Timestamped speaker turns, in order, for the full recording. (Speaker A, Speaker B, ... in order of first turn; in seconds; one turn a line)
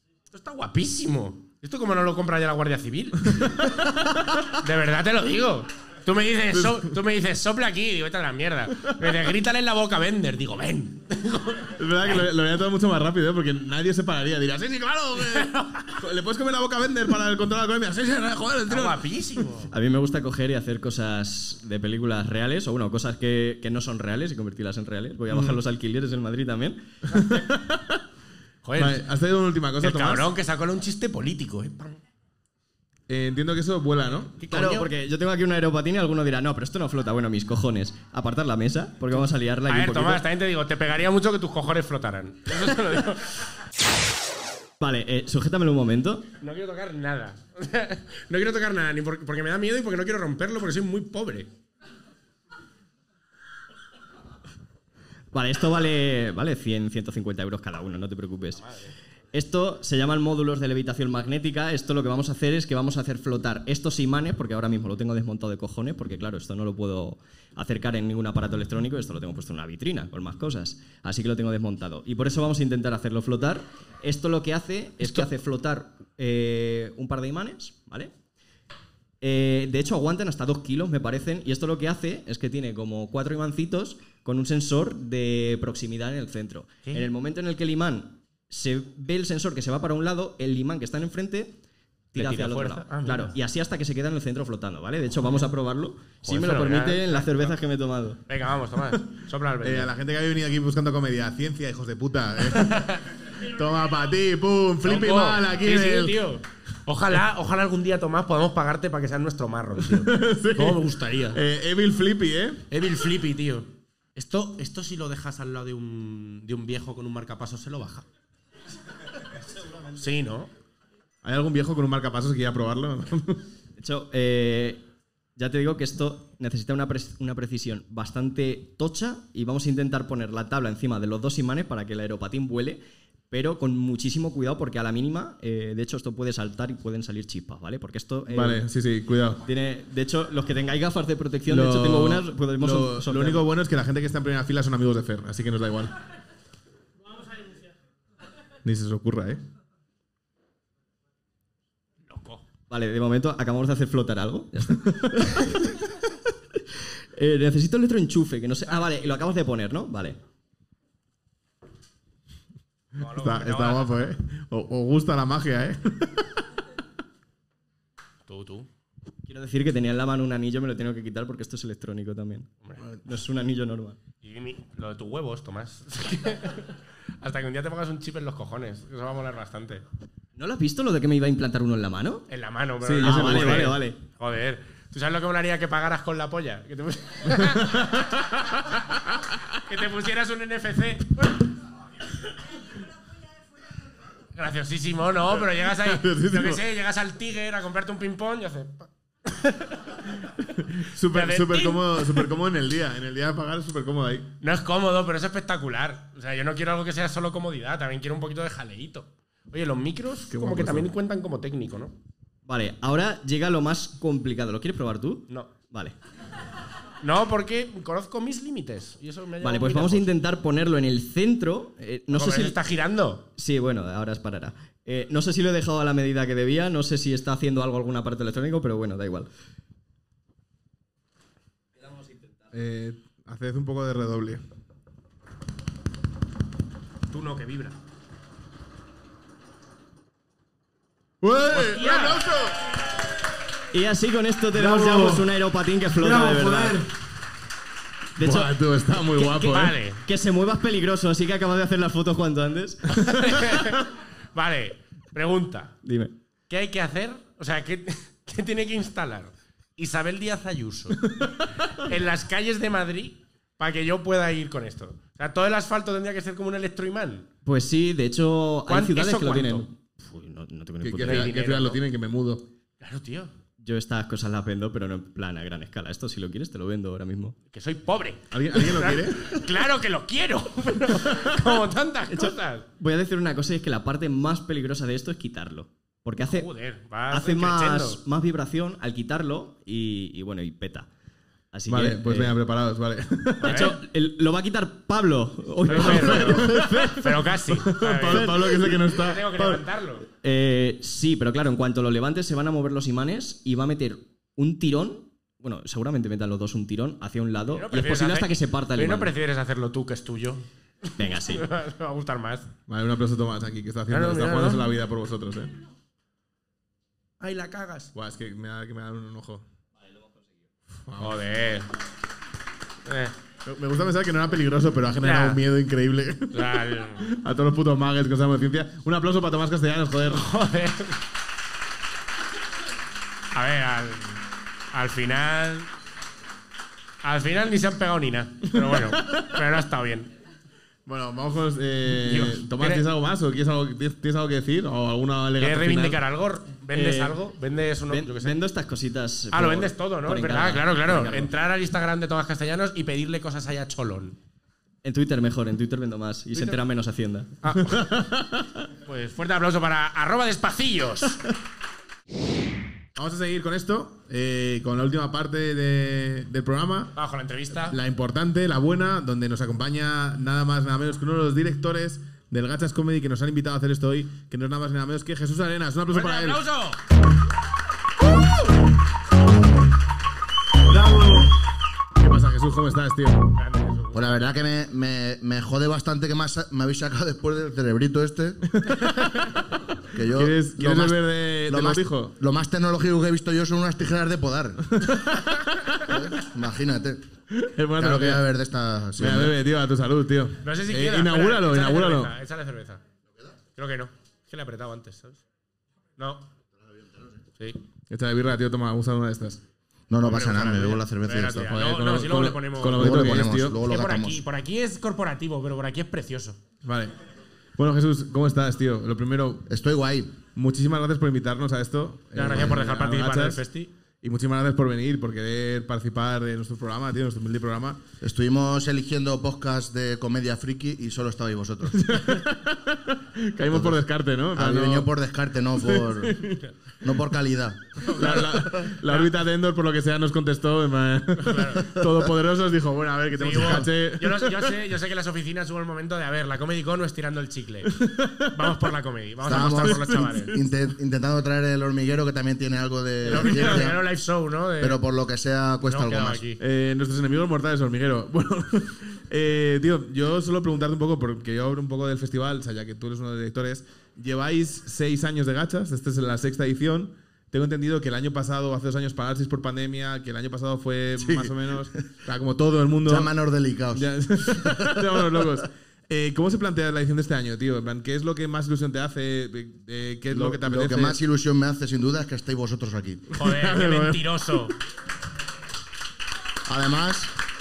Speaker A: 0.3-3.6
Speaker B: 3.3-4.4
Speaker A: 4.5-12.2
Speaker B: 6.5-6.9
Speaker B: 8.8-9.2
Speaker B: 11.8-19.0
Speaker A: 15.3-15.8
Speaker A: 18.7-19.7
Speaker C: 19.7-26.8
Speaker B: 25.3-25.6
Speaker B: 27.1-28.0
Speaker A: 28.6-29.0
Speaker B: 28.8-30.3
Speaker A: 29.8-32.0
Speaker B: 33.1-34.4
Speaker A: 34.4-34.9
Speaker C: 34.5-40.2
Speaker A: 39.7-43.4
Speaker C: 44.8-46.2
Speaker A: 46.4-51.5
Speaker C: 55.3-58.7
Speaker C: 59.3-78.1
Speaker C: 79.2-91.6
Speaker C: 92.1-98.2
Speaker A: 92.1-93.3
Speaker A: 96.2-97.5
Speaker A: 98.3-99.9
Speaker B: 99.6-106.2
Speaker A: 102.6-103.0
Speaker A: 104.8-111.4
Speaker B: 109.8-112.6
Speaker A: 112.7-118.0
Speaker A: 119.9-120.5
Speaker B: 121.2-123.4
Speaker C: 123.8-124.8
Speaker C: 125.3-138.6
Speaker B: 138.3-139.4
Speaker C: 139.4-143.4
Speaker B: 141.4-145.9
Speaker B: 148.6-149.4
Speaker A: 152.1-152.4
Speaker C: 152.7-155.8
Speaker C: 157.1-160.2
Speaker A: 158.7-159.2
Speaker A: 162.9-164.1
Speaker B: 163.1-166.4
Speaker A: 168.3-168.7
Speaker C: 169.2-172.5
Speaker C: 173.0-174.0
Speaker A: 174.2-179.8
Speaker C: 180.3-182.2
Speaker A: 182.3-188.2
Speaker B: 182.8-183.8
Speaker C: 183.0-184.0
Speaker B: 187.4-188.6
Speaker A: 189.5-191.4
Speaker A: 194.3-199.9
Speaker B: 195.5-196.6
Speaker B: 200.5-204.3
Speaker A: 201.1-202.2
Speaker A: 204.4-211.9
Speaker B: 210.3-210.9
Speaker C: 212.4-215.9
Speaker A: 217.0-220.1
Speaker C: 219.4-222.6
Speaker A: 222.1-223.3
Speaker C: 223.4-229.3
Speaker B: 232.5-234.4
Speaker A: 237.1-237.8
Speaker B: 241.2-242.6
Speaker A: 241.5-242.2
Speaker C: 243.7-246.8
Speaker D: 244.5-245.3
Speaker D: 245.9-246.9
Speaker C: 248.2-248.5
Speaker B: 248.2-249.8
Speaker C: 249.2-253.2
Speaker A: 249.3-250.0
Speaker A: 252.9-255.8
Speaker C: 255.8-256.1
Speaker A: 256.5-267.3
Speaker C: 267.4-271.3
Speaker A: 268.7-269.6
Speaker B: 270.8-272.4
Speaker A: 271.0-271.8
Speaker A: 272.8-273.3
Speaker C: 273.6-277.4
Speaker A: 277.5-282.6
Speaker B: 278.3-279.4
Speaker C: 282.1-286.5
Speaker A: 286.2-288.0
Speaker C: 287.1-290.9
Speaker C: 291.5-292.3
Speaker B: 291.7-293.7
Speaker A: 293.4-293.8
Speaker C: 293.4-297.2
Speaker A: 295.6-300.1
Speaker B: 295.7-299.6
Speaker C: 298.1-298.9
Speaker C: 300.1-309.1
Speaker A: 307.5-312.5
Speaker C: 311.0-311.5
Speaker B: 312.7-315.6
Speaker A: 313.9-314.6
Speaker A: 317.2-317.9
Speaker B: 317.9-319.4
Speaker B: 320.9-321.2
Speaker A: 321.0-321.7
Speaker A: 322.9-323.1
Speaker B: 323.4-330.3
Speaker A: 325.0-325.4
Speaker A: 326.3-327.1
Speaker A: 330.1-331.0
Speaker A: 333.3-335.7
Speaker A: 337.0-340.1
Speaker B: 338.5-339.3
Speaker B: 340.9-346.0
Speaker A: 341.9-342.9
Speaker A: 345.4-348.4
Speaker C: 346.7-347.2
Speaker C: 347.9-351.3
Speaker A: 349.3-354.2
Speaker C: 354.8-357.3
Speaker A: 357.4-357.9
Speaker B: 357.6-358.6
Speaker A: 358.8-361.2
Speaker B: 362.9-366.9
Speaker A: 366.9-367.8
Speaker B: 367.6-376.4
Speaker A: 375.9-376.8
Speaker D: 380.7-381.3
Speaker B: 382.0-383.3
Speaker A: 383.4-384.2
Speaker E: 383.9-388.4
Speaker B: 388.5-389.3
Speaker E: 389.9-394.6
Speaker B: 390.1-392.1
Speaker B: 394.7-395.9
Speaker E: 395.8-397.0
Speaker B: 397.3-398.2
Speaker E: 397.8-399.4
Speaker B: 399.0-402.1
Speaker A: 400.4-402.8
Speaker A: 403.5-405.2
Speaker A: 406.0-406.3
Speaker B: 407.9-409.4
Speaker E: 409.9-411.5
Speaker A: 410.0-416.4
Speaker B: 411.4-413.6
Speaker E: 412.8-414.2
Speaker B: 416.6-416.9
Speaker B: 417.6-419.4
Speaker E: 419.5-420.2
Speaker B: 420.2-423.4
Speaker A: 422.1-423.7
Speaker B: 424.0-427.8
Speaker E: 428.0-431.8
Speaker B: 431.7-434.9
Speaker E: 433.5-433.8
Speaker E: 434.3-436.2
Speaker B: 435.6-436.4
Speaker E: 436.8-437.8
Speaker A: 437.8-439.1
Speaker B: 437.9-444.6
Speaker A: 441.2-441.7
Speaker A: 443.2-450.3
Speaker B: 447.7-448.3
Speaker E: 449.2-453.8
Speaker B: 449.3-450.5
Speaker A: 453.0-454.8
Speaker B: 453.1-453.7
Speaker E: 454.6-456.2
Speaker A: 455.6-456.4
Speaker B: 456.4-473.1
Speaker E: 471.0-471.8
Speaker E: 472.8-474.9
Speaker B: 473.7-481.0
Speaker E: 480.1-483.1
Speaker A: 483.1-484.6
Speaker B: 483.2-484.1
Speaker E: 486.4-487.1